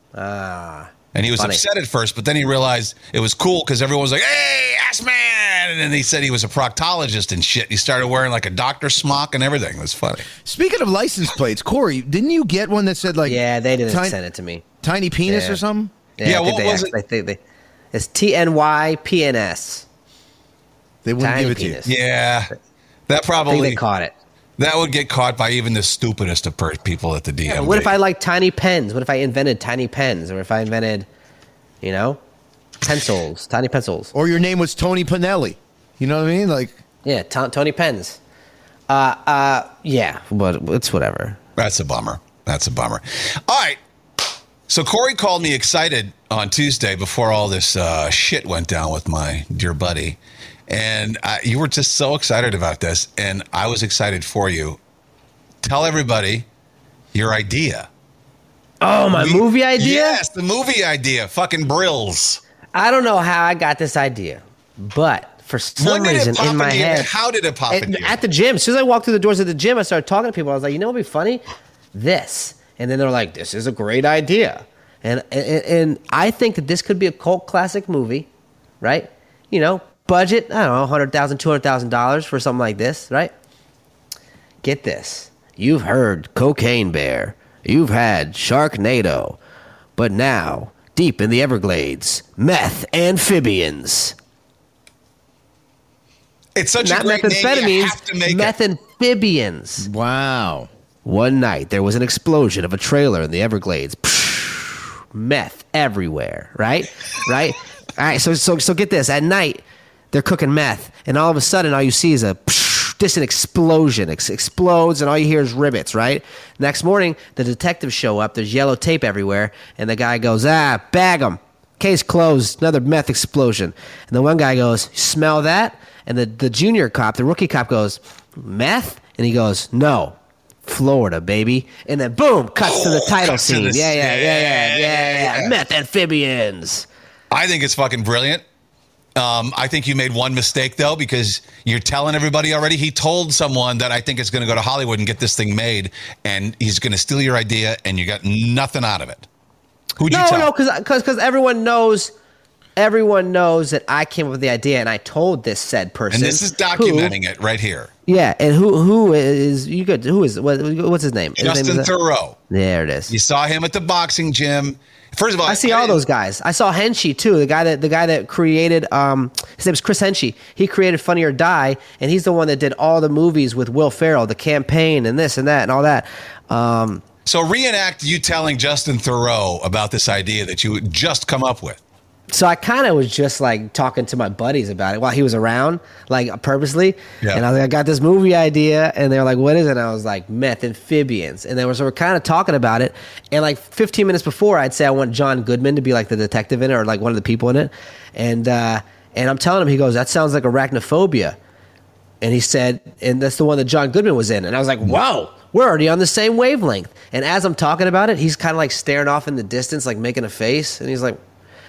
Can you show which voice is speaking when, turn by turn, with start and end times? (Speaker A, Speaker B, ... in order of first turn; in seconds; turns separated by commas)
Speaker A: 0.1-1.6, Speaker B: 1.1-10.3, Speaker C: 10.4-14.2, Speaker A: 13.2-14.6, Speaker C: 14.8-15.9, Speaker A: 15.3-15.6, Speaker A: 16.2-17.4, Speaker B: 16.2-16.9, Speaker A: 17.9-19.9, Speaker C: 21.0-21.8, Speaker A: 21.2-21.9, Speaker B: 21.8-22.5, Speaker B: 23.1-23.8, Speaker A: 23.5-24.1, Speaker B: 24.6-27.9, Speaker A: 27.4-31.1, Speaker A: 31.8-32.2, Speaker A: 32.8-34.1, Speaker C: 34.1-36.8, Speaker A: 37.0-38.2, Speaker A: 38.9-41.4, Speaker B: 41.6-43.8, Speaker B: 44.7-54.8, Speaker B: 55.6-56.5, Speaker B: 57.1-57.9, Speaker A: 58.8-60.2, Speaker B: 59.1-62.4, Speaker A: 62.7-67.1, Speaker B: 65.8-68.2, Speaker A: 67.7-71.4, Speaker A: 71.9-78.3, Speaker A: 78.8-83.3, Speaker A: 84.6-89.4, Speaker A: 90.0-94.1, Speaker B: 96.5-98.5, Speaker A: 96.8-99.9, Speaker C: 99.8-100.7, Speaker A: 101.0-136.9, Speaker B: 132.6-135.5, Speaker B: 137.3-138.4, Speaker B: 139.2-149.2, Speaker B: 150.0-150.5, Speaker A: 150.1-152.1, Speaker A: 152.8-157.1, Speaker B: 156.1-157.9, Speaker A: 158.1-161.9, Speaker B: 161.4-162.4, Speaker A: 162.5-163.1, Speaker B: 163.1-166.0, Speaker A: 165.4-177.0, Speaker B: 177.2-181.8, Speaker A: 182.3-201.4, Speaker A: 202.2-211.2